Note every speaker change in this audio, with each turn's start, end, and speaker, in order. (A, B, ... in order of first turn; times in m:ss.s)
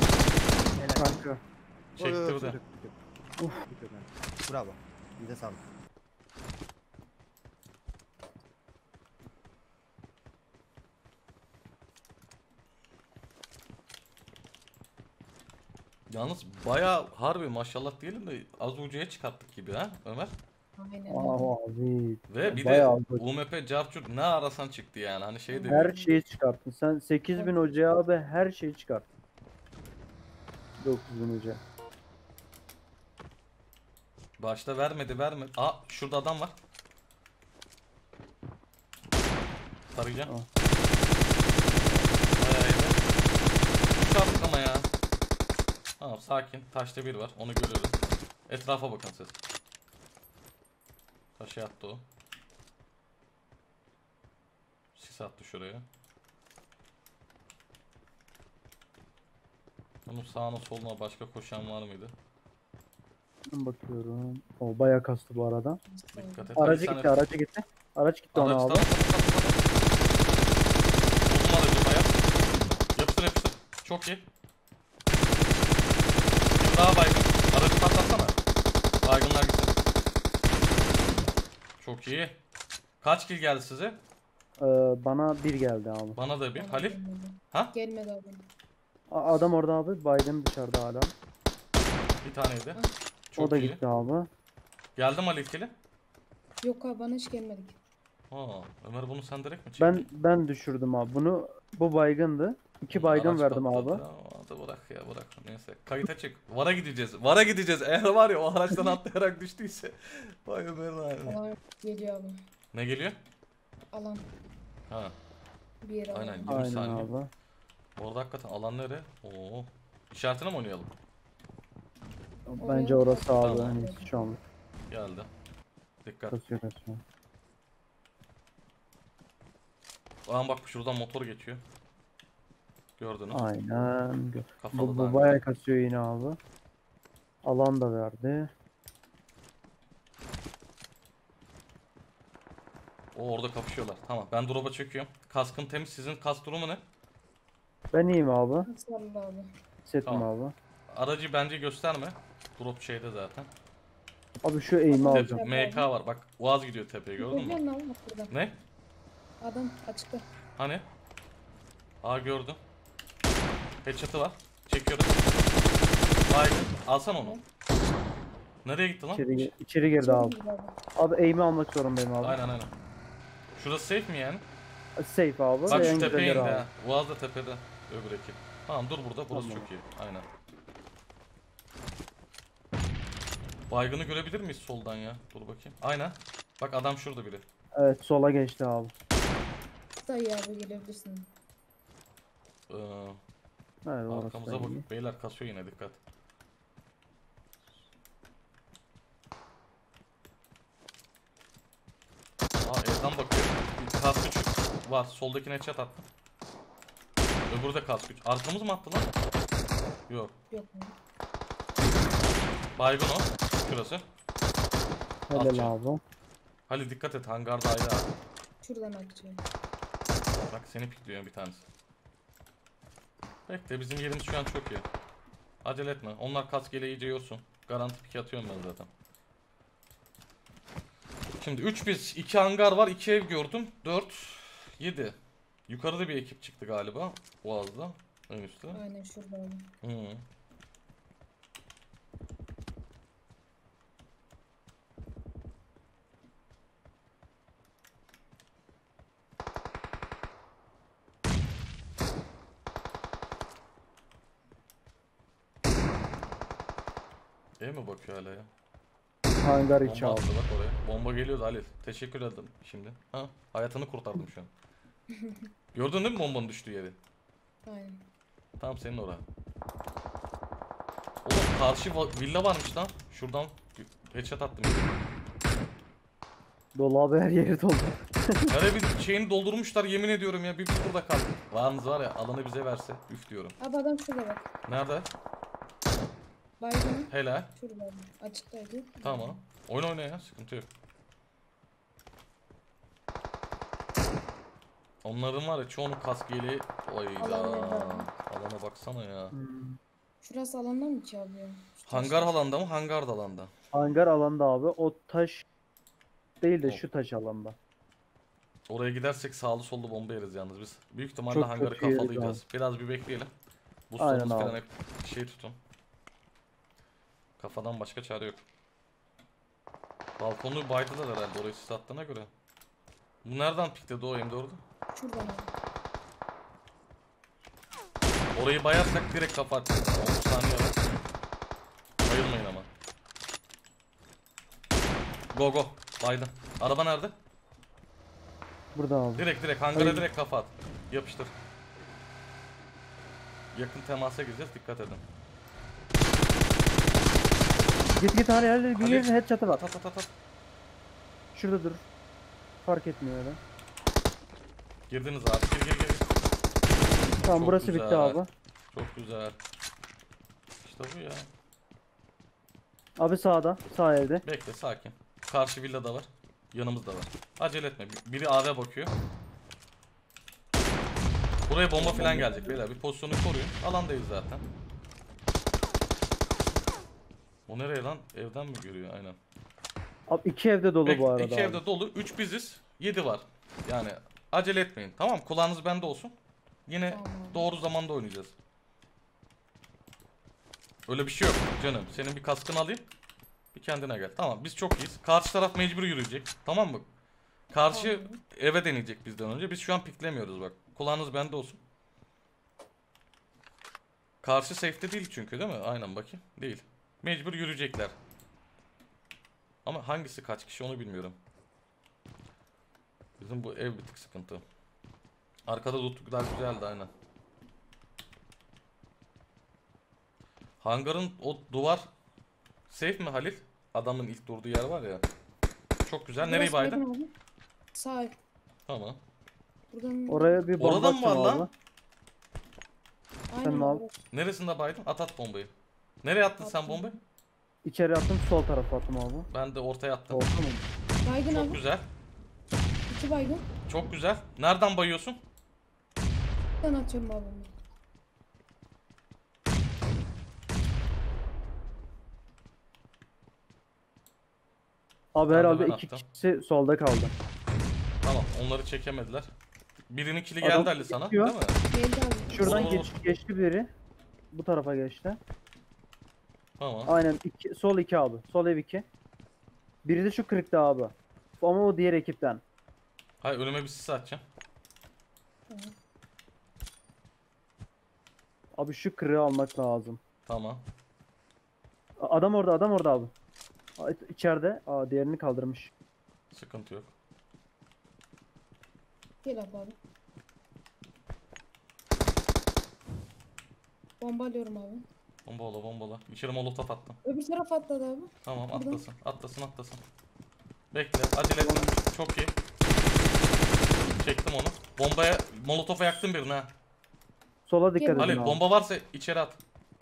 0:00.8-0:01.2 A
0:01.0-0:01.4 B
0:02.0-0:02.6 C
0:02.0-0:02.9 A
0:03.7-0:05.6 A
0:16.1-0:20.3 C
0:20.8-0:21.5 D
0:21.1-0:23.2 B
0:22.3-0:25.9 C
0:25.5-0:26.2 D
0:25.7-0:29.0 B
0:30.8-0:31.6 B
0:34.4-0:36.6 C
0:39.9-0:40.3 C
0:41.7-0:42.2 B
0:42.4-0:43.0 C
0:44.0-0:44.9 C
0:46.0-0:49.4 C
0:51.4-0:52.0 C
0:54.9-0:55.8 C
1:00.0-1:02.1 C
1:03.5-1:05.8 B
1:05.9-1:06.6 D
1:06.1-1:07.2 C
1:06.6-1:08.9 B
1:08.3-1:09.6 C
1:11.3-1:12.2 C
1:12.9-1:14.2 C
1:16.6-1:18.4 C
1:19.0-1:19.7 C
1:21.8-1:22.4 C
1:23.0-1:24.0 C
1:24.6-1:26.2 B
1:26.2-1:27.0 C
1:26.5-1:28.5 D
1:29.1-1:31.1 B
1:32.2-1:32.8 C
1:33.3-1:33.8 C
1:33.4-1:34.3 B
1:35.0-1:35.7 C
1:36.6-1:37.8 D
1:38.3-1:40.1 C
1:39.8-1:44.0 B
1:42.9-1:51.4 C
1:51.2-1:52.3 D
1:52.7-1:53.2 C
1:53.9-1:54.2 D
1:54.9-1:55.1 C
1:55.8-1:56.6 D
1:56.1-1:57.1 C
1:56.4-1:57.3 B
1:58.0-2:00.9 C
2:02.5-2:04.4 B
2:02.6-2:04.3 D
2:03.4-2:03.8 C
2:04.9-2:05.3 C
2:06.0-2:06.4 C
2:06.3-2:07.0 B
2:10.2-2:11.6 C
2:13.0-2:13.4 C
2:13.3-2:16.4 B
2:14.6-2:15.4 C
2:17.4-2:18.5 B
2:23.1-2:26.8 C
2:27.9-2:28.7 B
2:28.6-2:29.5 D
2:29.8-2:30.5 B
2:30.9-2:33.5 C
2:34.4-2:35.4 B
2:34.9-2:35.9 D
2:35.1-2:37.6 C
2:37.2-2:38.3 D
2:38.3-2:38.6 C
2:39.4-2:40.2 D
2:40.6-2:40.8 C
2:42.0-2:42.6 C
2:43.8-2:45.2 C
2:46.3-2:47.4 C
2:48.6-2:49.5 C
2:49.1-2:50.4 B
2:50.0-2:50.7 D
2:51.0-2:52.4 B
2:52.2-2:52.7 C
2:53.6-2:54.4 C
2:55.0-2:56.7 B
2:55.7-3:00.2 C
2:59.3-2:59.7 B
3:03.7-3:07.4 C
3:07.7-3:08.9 B
3:10.0-3:11.3 D
3:12.7-3:13.2 C
3:13.8-3:14.8 B
3:14.1-3:16.0 C
3:22.6-3:26.0 C
3:27.5-3:29.1 C
3:30.1-3:30.3 C
3:30.5-3:30.9 D
3:32.8-3:34.0 C
3:35.3-3:36.0 B
3:35.3-3:35.7 C
3:36.7-3:38.1 C
3:38.6-3:39.4 D
3:40.5-3:41.6 C
3:43.5-3:44.8 C
3:45.6-3:48.9 C
3:51.4-3:55.2 C
3:55.7-3:58.8 C
3:58.7-3:59.7 D
3:59.8-4:00.2 C
4:17.6-4:18.5 C
4:19.4-4:20.3 B
4:19.8-4:24.5 C
4:25.1-4:25.4 D
4:25.7-4:27.0 C
4:27.6-4:28.0 D
4:28.6-4:29.2 C
4:31.2-4:35.0 C
4:36.7-4:38.5 B
4:38.5-4:43.6 C
4:43.6-4:44.5 D
4:44.7-4:45.1 C
4:46.6-4:49.4 D
4:47.1-4:47.5 C
4:49.0-4:50.7 C
4:55.0-4:59.3 C
4:57.2-4:58.1 D
4:59.3-4:59.8 B
5:00.2-5:02.3 D
5:01.8-5:03.5 C
5:03.7-5:05.4 B
5:06.4-5:07.6 B
5:08.7-5:13.3 C
5:11.3-5:12.4 B
5:13.9-5:15.6 C
5:14.0-5:14.6 B
5:17.4-5:18.4 C
5:20.2-5:22.3 C
5:23.2-5:24.6 C
5:24.9-5:25.5 D
5:28.3-5:30.8 C
5:32.0-5:32.7 C
5:35.3-5:37.1 C
5:38.7-5:40.1 B
5:39.2-5:41.3 C
5:43.5-5:45.0 C
5:48.0-5:49.6 B
5:48.8-5:50.1 C
5:51.3-5:51.8 B
5:52.6-5:53.4 B
5:54.9-5:56.1 C
5:57.2-5:58.3 B
5:57.3-5:59.4 C
6:00.6-6:01.3 C
6:03.0-6:04.2 B
6:04.2-6:08.9 C
6:11.5-6:14.4 C
6:11.8-6:12.5 B
6:11.9-6:12.5 D
6:17.5-6:19.2 C
6:20.1-6:21.6 B
6:20.8-6:26.1 C
6:26.7-6:28.3 C
6:26.9-6:27.5 D
6:30.9-6:32.9 C
6:33.5-6:36.9 C
6:37.5-6:41.6 C
6:37.7-6:38.2 D
6:44.2-6:48.0 C
6:49.6-6:51.2 C
6:53.2-6:54.4 C
6:55.5-6:56.9 C
7:00.6-7:01.8 C
7:02.7-7:05.0 C
7:05.8-7:06.8 C
7:06.2-7:07.1 D
7:07.7-7:08.2 D
7:08.7-7:09.0 C
7:09.7-7:10.5 D
7:10.1-7:11.5 B
7:10.6-7:11.5 C
7:13.3-7:13.9 D
7:13.4-7:13.8 B
7:14.1-7:15.5 C
7:16.0-7:16.9 C
7:16.4-7:17.0 D
7:17.6-7:19.3 B
7:19.3-7:20.3 C
7:20.1-7:20.6 B
7:21.0-7:21.6 D
7:21.3-7:21.8 C
7:22.9-7:23.5 D
7:23.6-7:25.2 C
7:26.6-7:27.5 D
7:35.1-7:37.1 B
7:35.3-7:36.0 C
7:38.0-7:39.3 C
7:39.9-7:41.6 C
7:40.4-7:41.4 B
7:41.7-7:42.8 D
7:42.3-7:43.7 B
7:42.4-7:42.9 C
7:44.3-7:45.2 B
7:46.6-7:46.9 C
7:46.8-7:48.8 B
7:49.8-7:52.4 B
7:53.2-7:54.2 C
7:58.6-8:00.0 B
8:00.2-8:00.6 C
8:02.0-8:03.1 B
8:03.8-8:05.7 B
8:06.3-8:06.9 C
8:09.2-8:09.8 D
8:14.0-8:14.8 D
8:15.2-8:17.0 C
8:17.0-8:18.8 D
8:18.2-8:19.8 C
8:20.7-8:22.4 C
8:21.4-8:21.7 B
8:23.9-8:26.5 C
8:27.4-8:28.4 B
8:27.8-8:28.3 D
8:27.9-8:29.4 C